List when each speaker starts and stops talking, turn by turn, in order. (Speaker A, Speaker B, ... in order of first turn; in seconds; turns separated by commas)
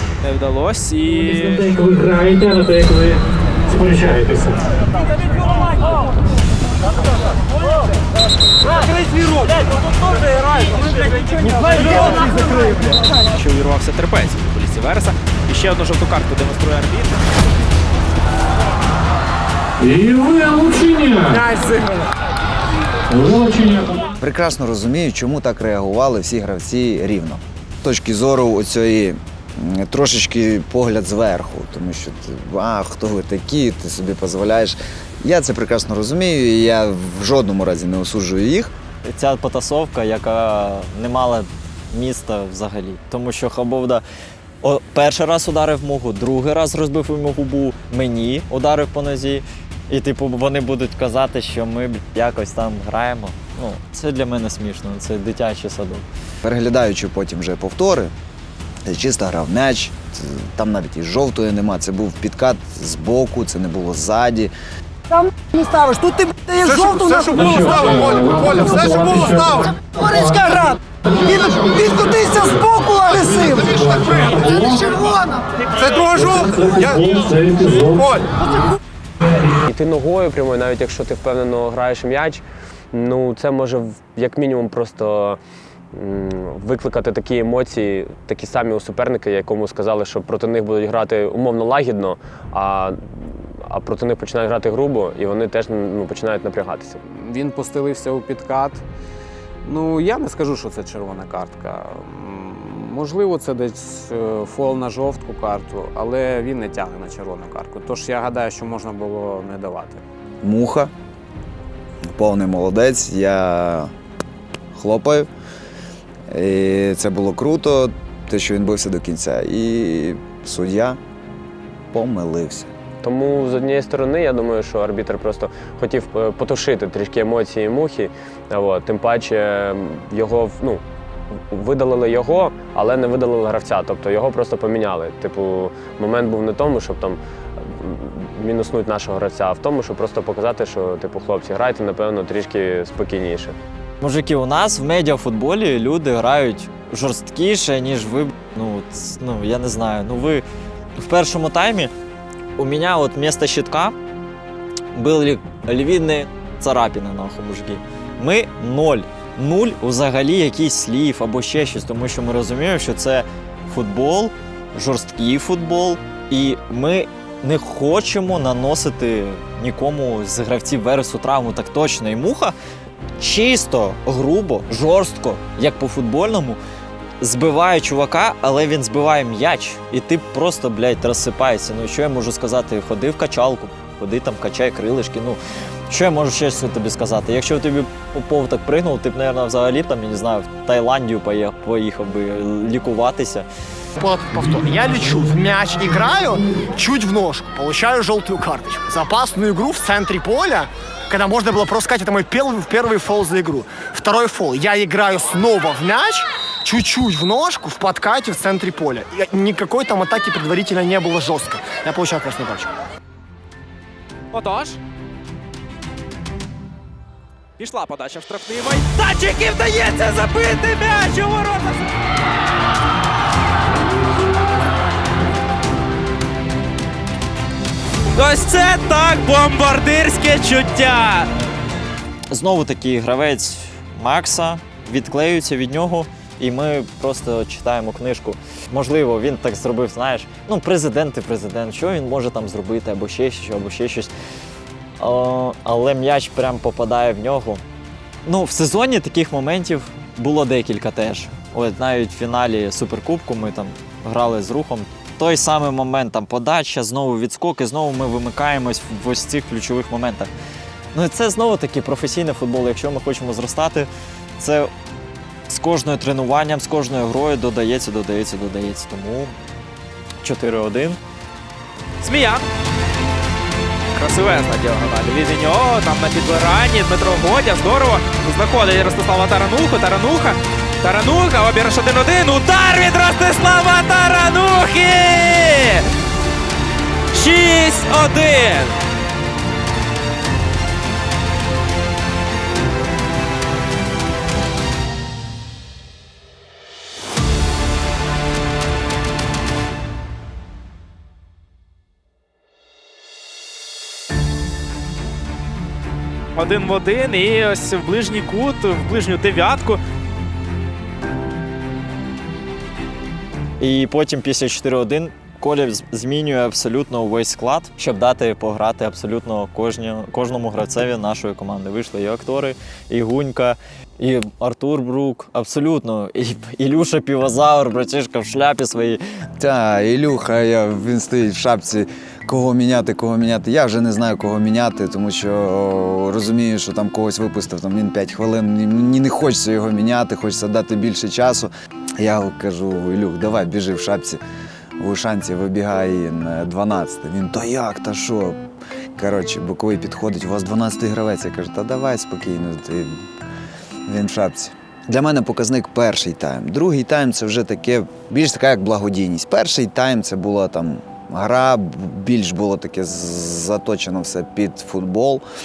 Speaker A: 0.2-1.9, Speaker B: 1.8-4.6, Speaker C: 11.8-12.4, Speaker A: 13.4-17.2, Speaker B: 19.8-21.4, Speaker D: 21.2-22.1, Speaker B: 23.1-24.0, Speaker E: 24.2-38.7, Speaker F: 39.0-44.0, Speaker F: 44.6-56.1, Speaker E: 56.4-58.1, Speaker E: 58.9-64.5, Speaker C: 65.1-75.5, Speaker D: 67.0-67.5, Speaker B: 67.9-69.7, Speaker B: 76.5-78.2, Speaker G: 79.7-85.4, Speaker G: 85.9-97.0, Speaker H: 97.1-98.8, Speaker H: 99.7-110.0, Speaker E: 110.4-110.9, Speaker E: 112.1-113.9, Speaker E: 114.7-115.3, Speaker E: 116.3-121.0, Speaker E: 121.9-122.7, Speaker G: 123.0-130.8, Speaker G: 131.5-143.6, Speaker F: 144.0-150.4, Speaker F: 151.0-151.9, Speaker F: 152.6-154.0, Speaker F: 154.9-172.6, Speaker F: 173.2-176.6, Speaker F: 177.2-193.5, Speaker D: 194.0-212.7, Speaker A: 214.3-214.8, Speaker A: 217.6-221.9, Speaker A: 228.2-231.3, Speaker F: 232.3-244.1, Speaker F: 245.0-247.6, Speaker F: 248.3-260.3, Speaker F: 260.9-264.7, Speaker F: 265.5-269.3, Speaker F: 270.2-271.0, Speaker A: 272.0-272.4, Speaker A: 273.9-285.9, Speaker A: 287.1-288.8, Speaker A: 306.4-309.8, Speaker F: 313.6-329.0, Speaker E: 329.4-344.2, Speaker E: 344.8-348.4, Speaker E: 349.0-353.0, Speaker E: 353.9-365.2